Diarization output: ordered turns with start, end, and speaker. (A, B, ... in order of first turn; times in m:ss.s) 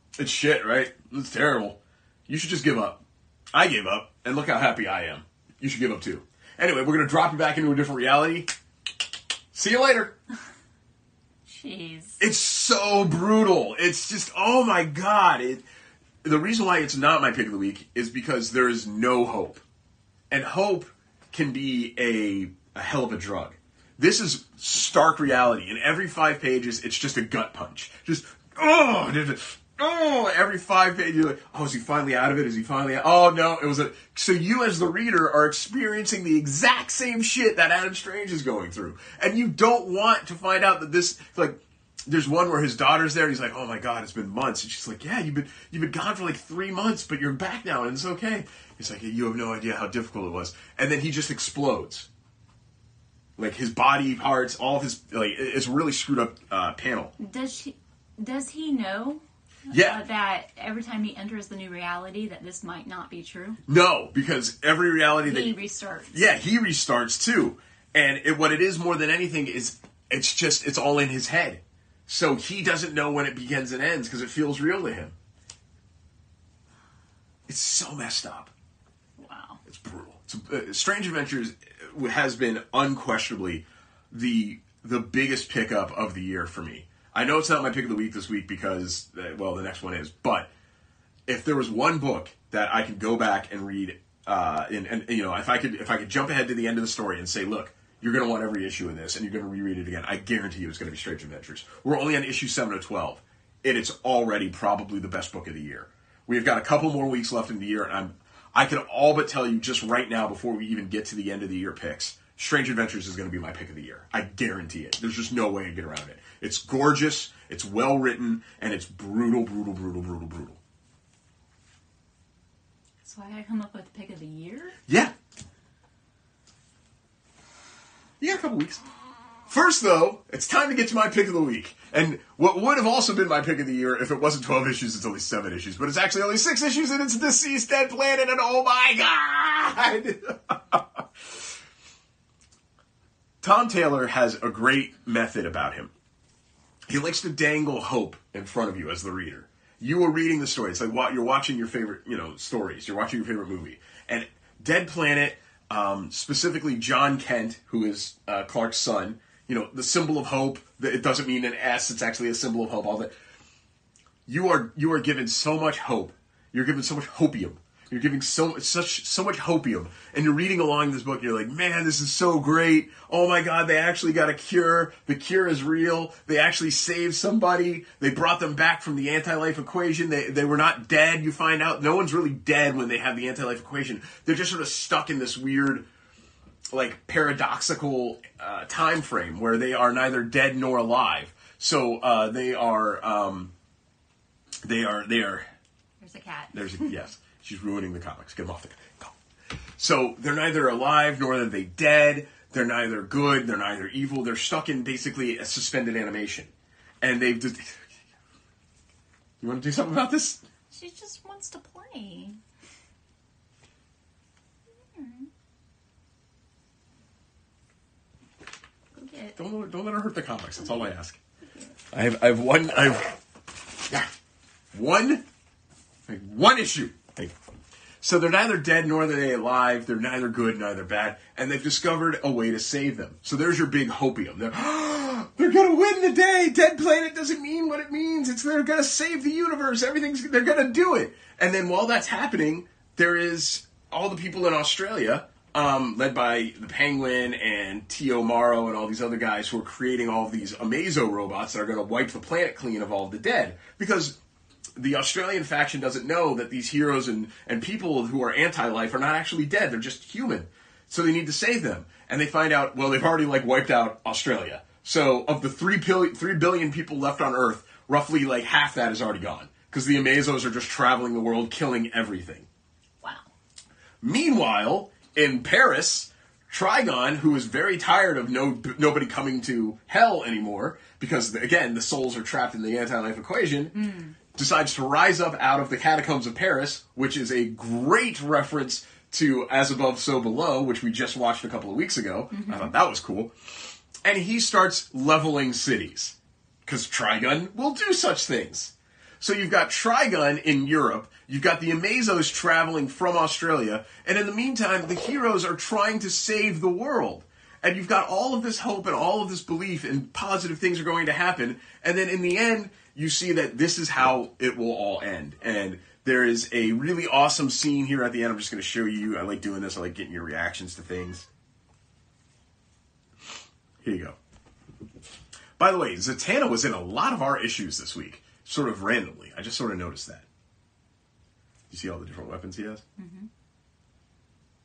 0:00.2-0:03.0 A
0:03.5-0:08.5 A
0:09.5-0:10.2 A
0:11.5-0:12.2 B
0:12.2-0:15.6 A
0:16.2-0:19.6 A
0:20.3-0:52.1 A
0:53.4-0:57.1 A
0:57.2-1:03.6 B
0:59.7-1:00.0 A
1:03.7-1:05.5 A
1:05.2-1:06.2 B
1:06.1-1:15.2 A
1:17.5-1:18.5 A
1:19.2-1:19.6 B
1:19.7-1:30.5 A
1:31.3-2:00.6 A
2:03.0-2:04.8 B
2:04.9-2:05.1 A
2:08.2-2:08.8 A
2:09.5-2:21.4 A
2:23.4-2:25.9 A
2:26.9-2:43.1 A
2:44.3-3:05.8 A
3:06.7-3:13.5 A
3:14.6-3:15.5 A
3:16.0-3:16.9 B
3:16.5-3:19.1 A
3:19.8-3:26.5 A
3:27.0-3:27.9 A
3:29.4-3:30.4 A
3:30.7-3:32.4 B
3:34.7-3:35.3 B
3:39.0-3:39.4 B
3:39.4-3:41.2 A
3:41.9-3:43.2 A
3:44.7-3:45.2 A
3:46.1-3:47.4 A
3:48.0-4:14.2 A
4:14.8-4:32.5 A
4:33.0-4:33.3 B
4:34.0-4:43.8 A
4:43.8-4:44.2 B
4:44.3-4:53.4 A
4:52.3-4:52.8 B
4:54.0-5:21.3 A
5:23.8-5:24.2 A
5:25.6-5:30.3 A
5:31.7-5:32.8 A
5:33.0-5:33.3 B